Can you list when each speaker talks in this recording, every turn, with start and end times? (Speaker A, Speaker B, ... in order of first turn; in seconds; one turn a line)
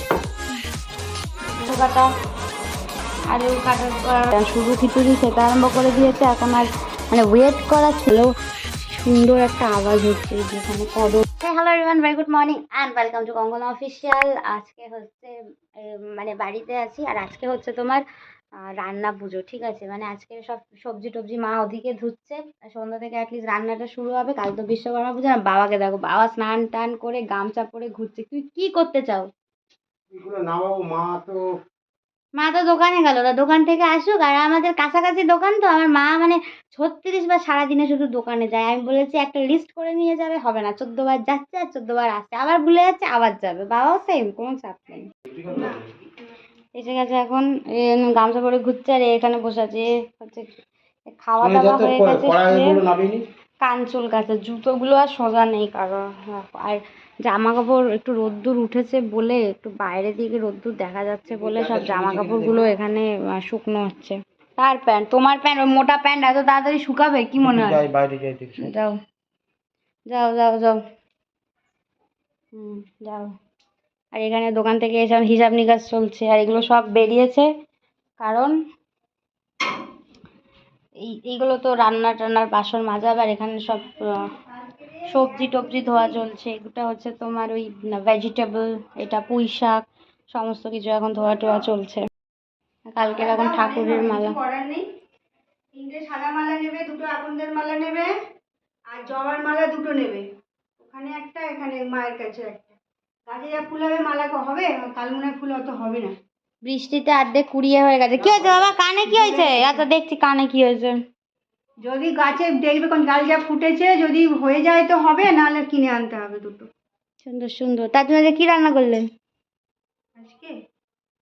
Speaker A: 1.6-2.1
Speaker A: 3.3-8.3
Speaker A: 8.9-18.0
Speaker A: 18.6-29.3
Speaker B: 30.1-31.4
Speaker A: 32.4-45.1
Speaker B: 45.3-45.8
Speaker A: 46.8-52.8
Speaker B: 51.4-53.2
Speaker A: 53.6-67.8
Speaker B: 61.4-62.7
Speaker B: 67.4-68.7
Speaker A: 68.6-69.0
Speaker A: 70.1-70.8
Speaker A: 72.5-73.3
Speaker A: 74.2-77.5
Speaker A: 78.2-78.6
Speaker A: 81.0-84.3
Speaker C: 84.2-86.2
Speaker A: 85.1-89.8
Speaker A: 90.3-92.1
Speaker A: 92.9-94.4
Speaker C: 93.1-94.9
Speaker C: 95.7-98.1
Speaker C: 98.9-100.3
Speaker C: 100.8-102.8
Speaker C: 103.3-106.2
Speaker A: 106.6-111.0
Speaker C: 109.1-109.8
Speaker C: 111.8-116.7
Speaker A: 117.2-119.1
Speaker C: 120.2-120.5